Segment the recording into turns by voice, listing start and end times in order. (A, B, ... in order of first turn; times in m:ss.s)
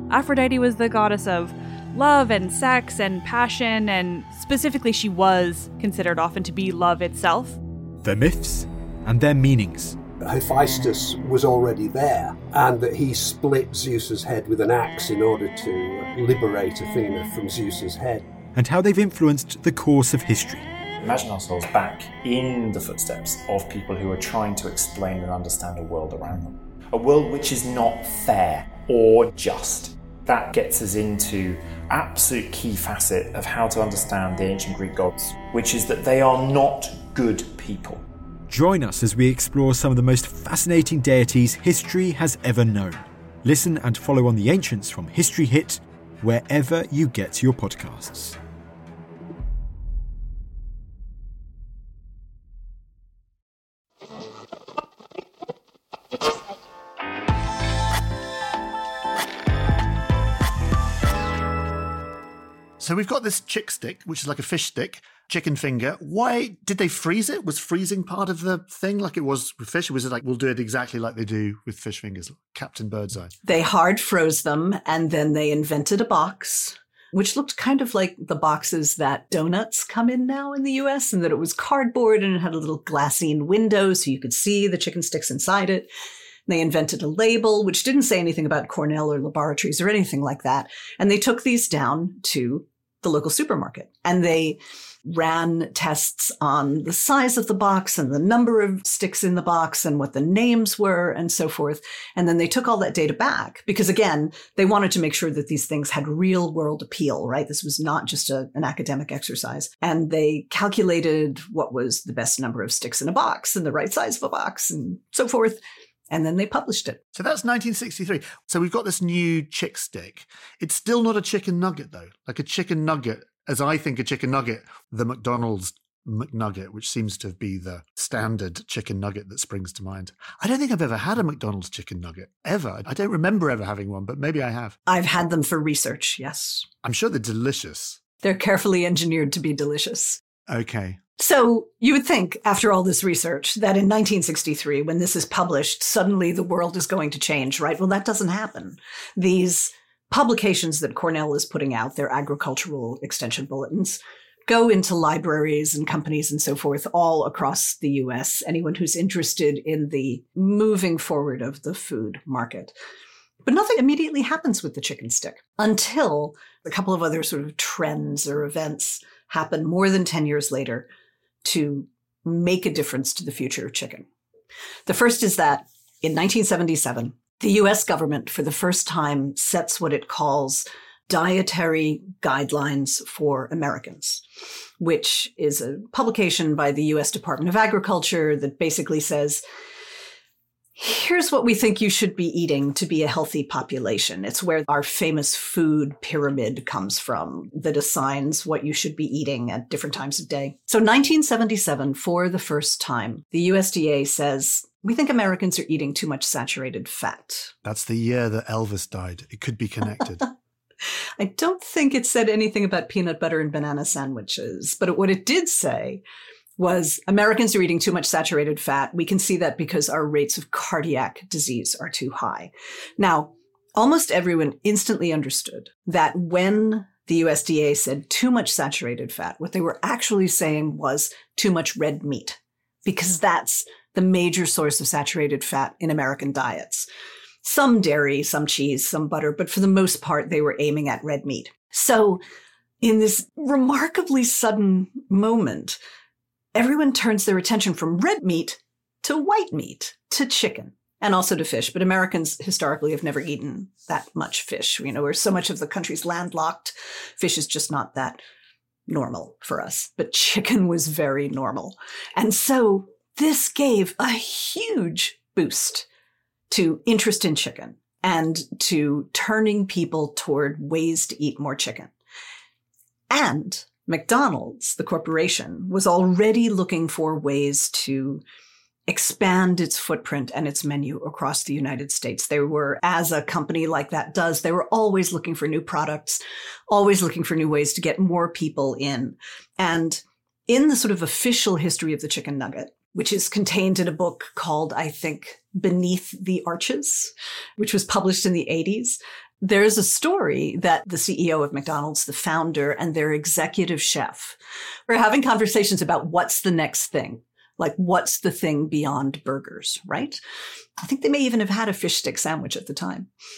0:00.1-0:07.6 A
0:08.0-0:10.0 B
0:10.2-0:18.3 C
0:18.5-0:20.7 B
0:21.0-0:38.0 D
0:38.5-0:48.4 B
1:02.8-1:13.3 E
1:13.4-1:25.9 F
1:26.5-1:55.6 F
1:56.1-1:57.0 F
1:57.1-2:14.8 E
2:14.9-2:16.7 F
2:16.8-2:18.0 E
2:18.2-2:20.2 F
2:20.5-2:21.0 E
2:21.2-2:42.7 F
2:43.4-2:50.9 F
2:51.4-2:54.0 F
2:54.8-3:04.2 F
3:04.8-3:09.4 F
3:10.8-3:27.5 F
3:27.6-3:30.3 E
3:31.2-3:36.0 F
3:36.6-3:56.9 F
3:57.4-4:02.2 F
4:02.8-4:05.8 F
4:06.5-4:18.2 F
4:18.9-4:25.8 F
4:26.5-4:31.9 F
4:33.1-4:38.2 F
4:38.9-5:04.4 F
5:04.9-5:10.2 F
5:10.8-5:13.1 F